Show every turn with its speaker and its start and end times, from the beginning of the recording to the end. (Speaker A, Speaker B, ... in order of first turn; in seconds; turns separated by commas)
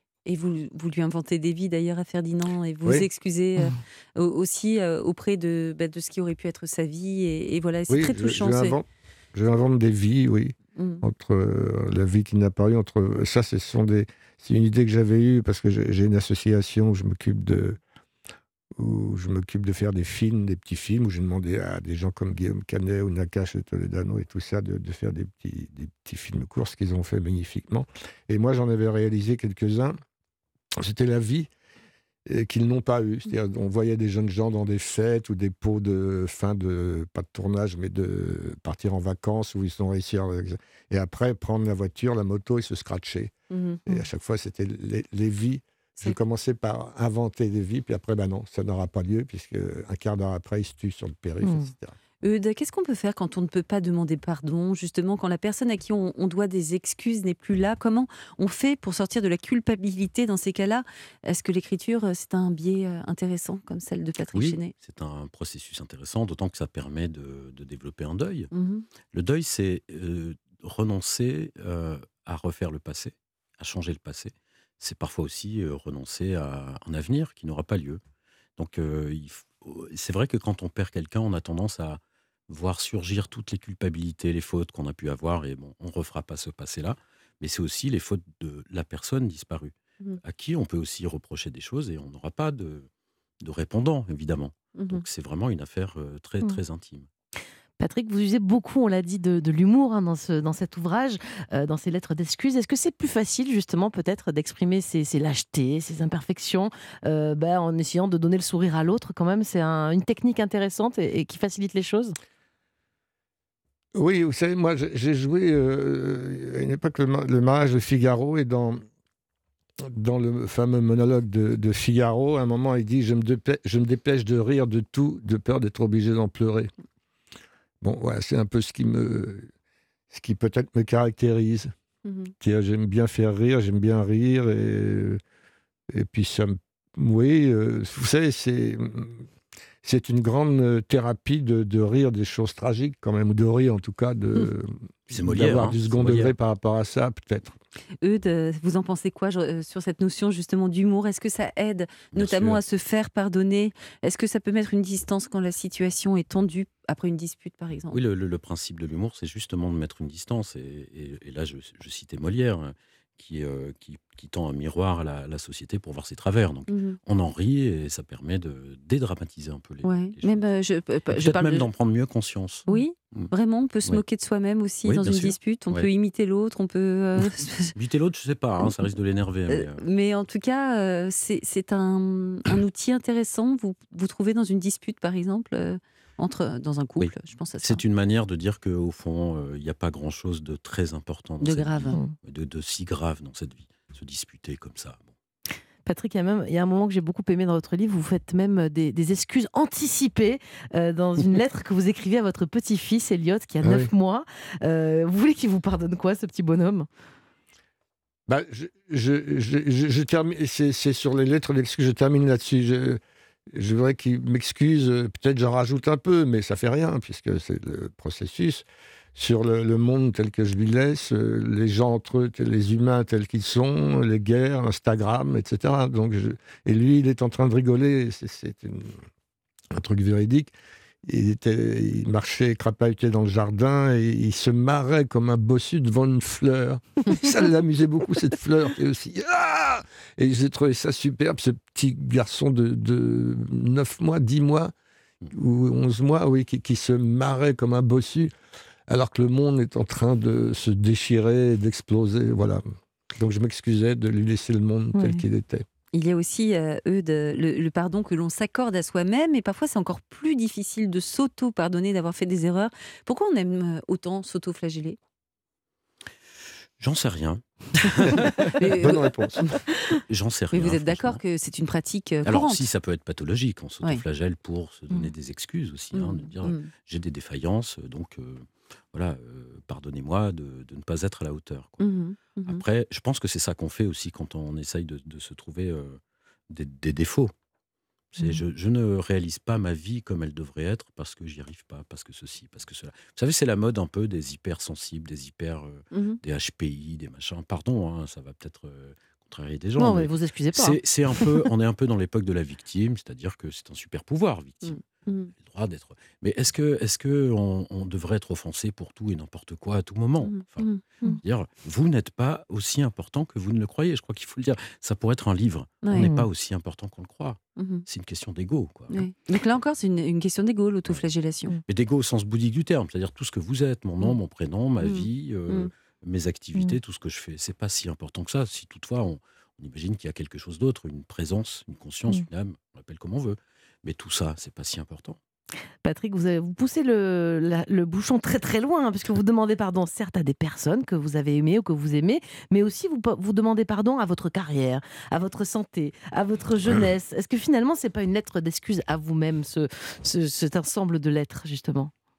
Speaker A: 0.3-8.8, Speaker B: 7.9-17.8, Speaker A: 10.8-11.0, Speaker B: 18.8-30.0, Speaker B: 30.8-31.5, Speaker B: 32.3-43.3, Speaker A: 43.5-43.8, Speaker B: 43.9-52.0, Speaker C: 51.4-51.7, Speaker A: 52.2-64.7, Speaker D: 64.3-68.5, Speaker A: 68.5-68.9, Speaker D: 69.1-78.0, Speaker D: 78.6-92.9, Speaker D: 93.4-97.1, Speaker A: 94.8-95.0, Speaker C: 97.8-112.2, Speaker B: 114.0-118.8, Speaker B: 119.8-126.7, Speaker B: 127.8-129.5, Speaker B: 130.1-131.7, Speaker A: 132.1-132.3, Speaker B: 132.4-135.2, Speaker B: 135.9-139.2, Speaker B: 139.8-147.6, Speaker D: 145.1-146.3, Speaker A: 148.0-158.0, Speaker D: 152.1-152.6, Speaker D: 157.9-170.5, Speaker A: 166.7-167.0, Speaker A: 169.8-171.7, Speaker D: 171.1-173.3, Speaker A: 172.7-177.8, Speaker D: 174.8-175.9, Speaker D: 177.8-179.8, Speaker A: 179.5-187.8, Speaker D: 187.0-195.1, Speaker A: 191.4-192.0, Speaker C: 195.9-206.9, Speaker B: 203.6-203.9, Speaker B: 208.3-213.0, Speaker B: 213.5-229.0, Speaker B: 229.7-230.5, Speaker B: 231.0-244.7, Speaker B: 245.3-248.3, Speaker B: 248.9-252.6, Speaker B: 253.2-255.7, Speaker C: 255.0-255.2, Speaker A: 255.9-265.0, Speaker D: 266.8-268.9, Speaker A: 268.4-269.6, Speaker B: 268.8-269.4, Speaker D: 269.9-271.2, Speaker A: 270.5-272.7, Speaker D: 272.2-281.8, Speaker A: 275.9-276.7, Speaker A: 281.8-282.6, Speaker D: 282.5-287.3, Speaker D: 288.1-304.8, Speaker A: 295.9-296.2, Speaker C: 299.8-301.5, Speaker A: 304.6-305.3, Speaker D: 305.3-319.0, Speaker A: 310.2-310.8, Speaker A: 315.8-316.1, Speaker C: 315.9-316.3, Speaker A: 317.6-317.9, Speaker A: 318.9-321.6, Speaker D: 321.7-335.2, Speaker A: 324.8-325.7, Speaker C: 335.8-351.9